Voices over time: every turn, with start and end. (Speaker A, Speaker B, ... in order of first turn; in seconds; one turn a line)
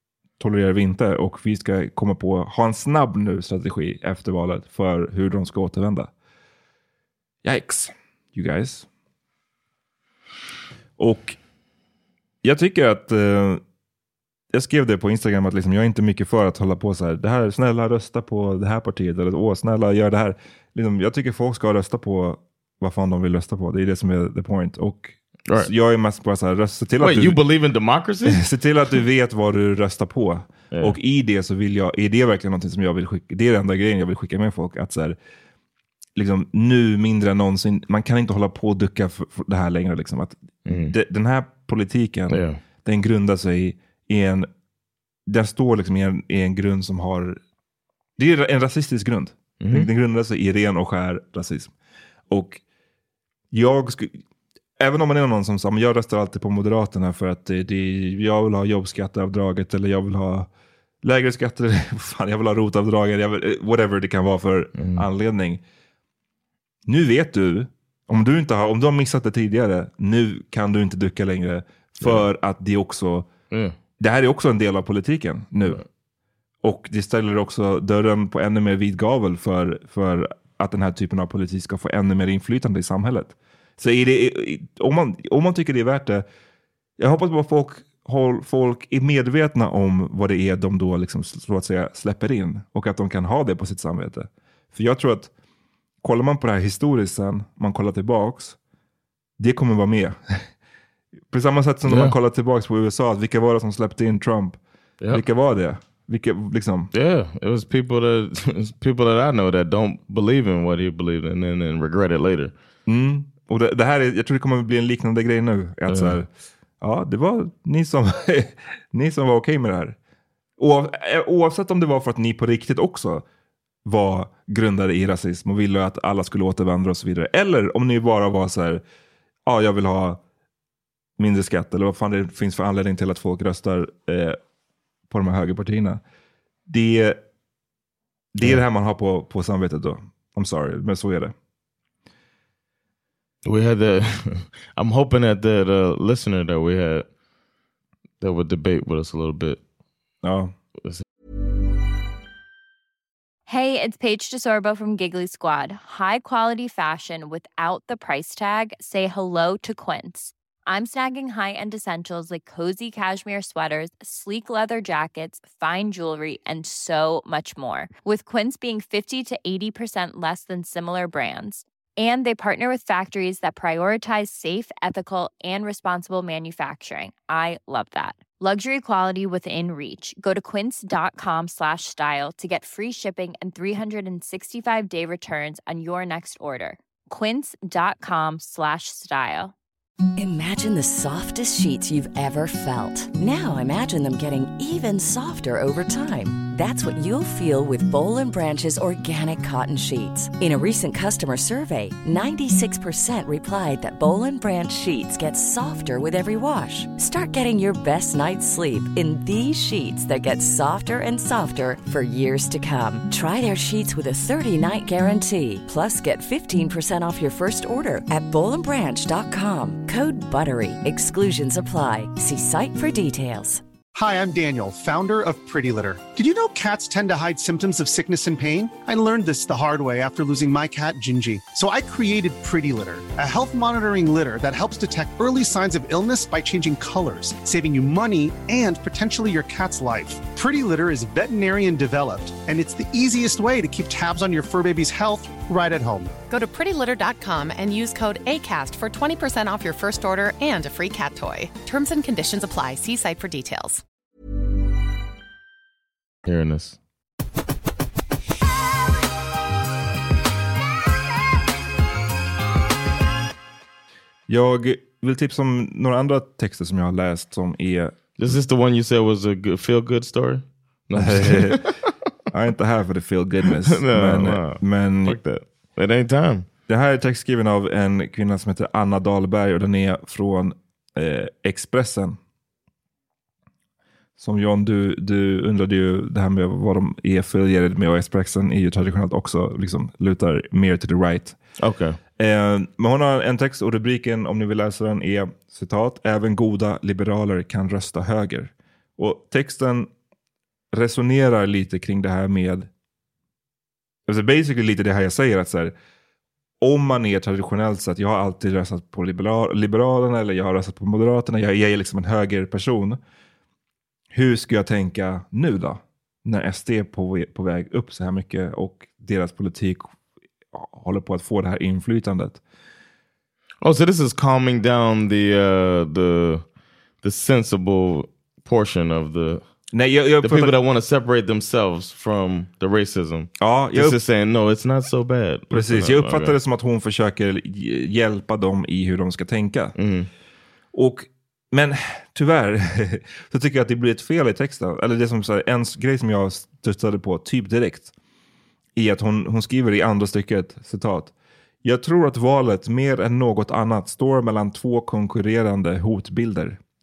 Speaker A: 0.4-6.1
Speaker A: 7.4-8.9
Speaker A: 11.0-11.4
Speaker A: 12.4-13.6
Speaker A: 14.5-27.4
Speaker B: 27.0-28.4
Speaker A: 28.3-35.1
Speaker A: 36.1-44.5
Speaker B: 40.6-40.9
Speaker B: 42.3-42.6
Speaker A: 45.3-47.4
Speaker A: 48.2-51.7
Speaker B: 49.6-49.9
Speaker A: 52.3-52.6
Speaker A: 53.5-54.2
Speaker A: 54.8-60.5
Speaker A: 61.0-65.6
Speaker B: 64.8-65.0
Speaker A: 66.8-73.3
Speaker A: 74.0-75.8
Speaker A: 76.6-86.2
Speaker A: 87.0-95.3
Speaker A: 96.0-98.6
Speaker A: 99.4-100.4
Speaker A: 101.3-104.6
Speaker B: 101.9-102.1
Speaker A: 105.1-106.9
Speaker B: 106.9-112.5
Speaker A: 112.9-116.3
Speaker B: 115.9-116.2
Speaker A: 116.8-120.0
Speaker A: 120.6-123.2
Speaker A: 123.8-128.8
Speaker A: 129.4-130.2
Speaker A: 131.2-134.4
Speaker A: 135.1-136.0
Speaker A: 136.7-137.2
Speaker A: 138.3-141.3
Speaker B: 143.4-147.1
Speaker B: 148.2-149.6
Speaker A: 150.2-150.5
Speaker C: 153.5-189.5
Speaker D: 190.2-223.6
Speaker E: 223.9-246.1
Speaker F: 246.3-253.8
Speaker B: 256.2-256.8
Speaker A: 264.3-268.4
Speaker B: 268.2-271.9
Speaker A: 271.0-271.7
Speaker A: 272.3-275.2
Speaker B: 273.6-276.4
Speaker A: 276.7-282.2
Speaker A: 284.2-291.4
Speaker B: 291.6-292.0
Speaker A: 292.2-299.9
Speaker A: 300.7-302.7
Speaker A: 304.1-305.7
Speaker A: 306.6-313.0
Speaker A: 314.1-319.9
Speaker A: 320.5-322.4
Speaker B: 323.6-326.4
Speaker B: 327.0-329.4
Speaker A: 329.7-330.5
Speaker B: 330.2-336.4
Speaker A: 333.4-333.9
Speaker A: 335.5-339.8
Speaker B: 339.8-340.1
Speaker A: 340.7-347.9
Speaker A: 348.8-351.1
Speaker A: 351.6-356.6